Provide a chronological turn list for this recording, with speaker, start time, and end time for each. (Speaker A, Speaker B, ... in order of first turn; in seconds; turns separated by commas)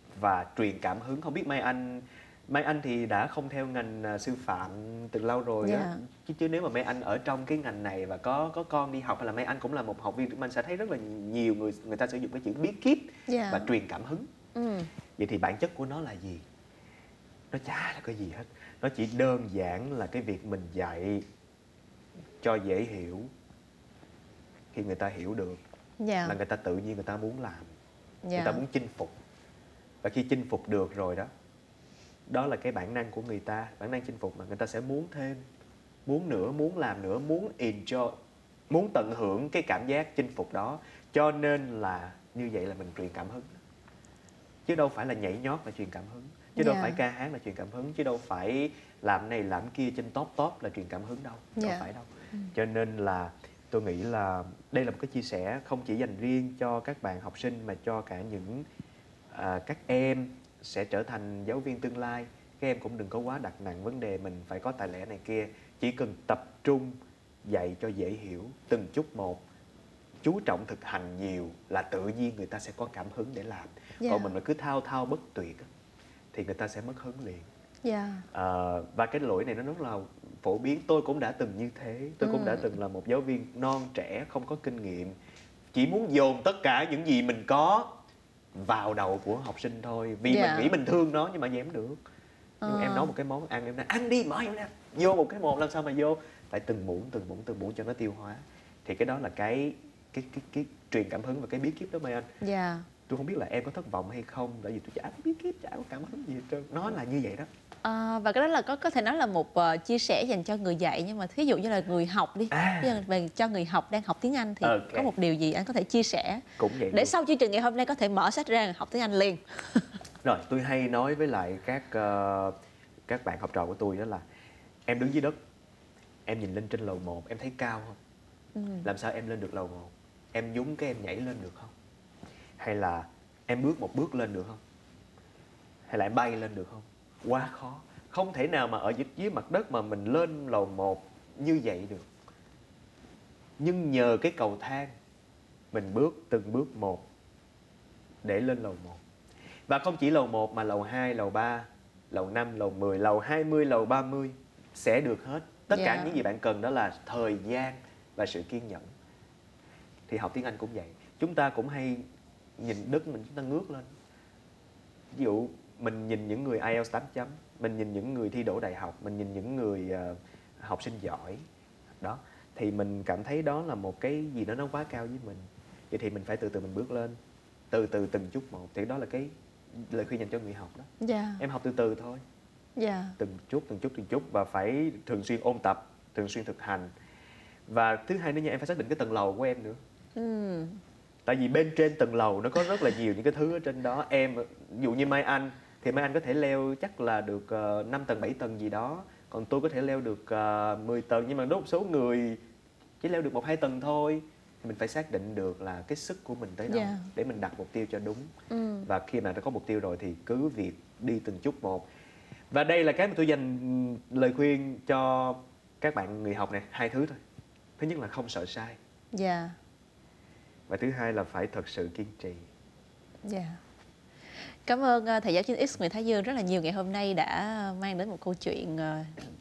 Speaker A: 0.2-14.3, Speaker B: 5.6-6.0, Speaker B: 13.3-13.7, Speaker B: 14.6-14.9, Speaker A: 15.2-16.4, Speaker A: 17.5-21.3, Speaker A: 22.4-23.3, Speaker A: 24.7-25.6, Speaker B: 26.0-26.4, Speaker A: 26.2-27.7, Speaker B: 28.2-28.6, Speaker A: 28.4-29.1, Speaker A: 30.0-31.3, Speaker A: 32.3-35.4, Speaker A: 36.1-38.1, Speaker A: 38.7-43.6, Speaker A: 44.7-58.6, Speaker B: 46.6-47.0, Speaker B: 51.6-52.5, Speaker A: 59.3-69.4, Speaker A: 70.2-75.7, Speaker B: 74.0-74.3, Speaker A: 76.3-77.5, Speaker B: 77.8-78.2, Speaker A: 78.3-85.2, Speaker B: 82.2-82.7, Speaker A: 85.7-88.0, Speaker A: 88.5-92.0, Speaker B: 90.3-90.7, Speaker B: 92.6-93.1, Speaker A: 92.7-102.3, Speaker B: 102.4-102.9, Speaker A: 103.1-107.5, Speaker B: 107.8-119.8, Speaker A: 112.5-113.0, Speaker A: 114.6-115.1, Speaker A: 116.6-117.1, Speaker A: 120.2-122.5, Speaker A: 123.1-124.2, Speaker A: 124.9-125.4, Speaker A: 126.3-128.0, Speaker B: 128.6-128.9, Speaker A: 128.8-131.7, Speaker A: 132.6-134.6, Speaker A: 135.9-142.1, Speaker A: 143.6-144.9, Speaker A: 145.7-147.0, Speaker A: 148.2-149.0, Speaker A: 149.7-158.9, Speaker B: 155.7-156.2, Speaker A: 160.1-162.1, Speaker A: 162.6-163.9, Speaker A: 165.1-171.4, Speaker A: 172.0-177.2, Speaker A: 177.7-182.2, Speaker B: 181.0-181.4, Speaker B: 182.8-183.2, Speaker A: 183.2-186.9, Speaker A: 187.7-189.8, Speaker B: 190.2-190.8, Speaker A: 191.3-202.4, Speaker A: 203.0-208.3, Speaker B: 206.7-207.1, Speaker B: 208.5-208.9, Speaker A: 208.9-211.9, Speaker A: 212.5-217.2, Speaker A: 217.8-218.8, Speaker B: 219.1-219.6, Speaker A: 220.7-222.5, Speaker B: 223.2-223.6, Speaker B: 224.7-229.2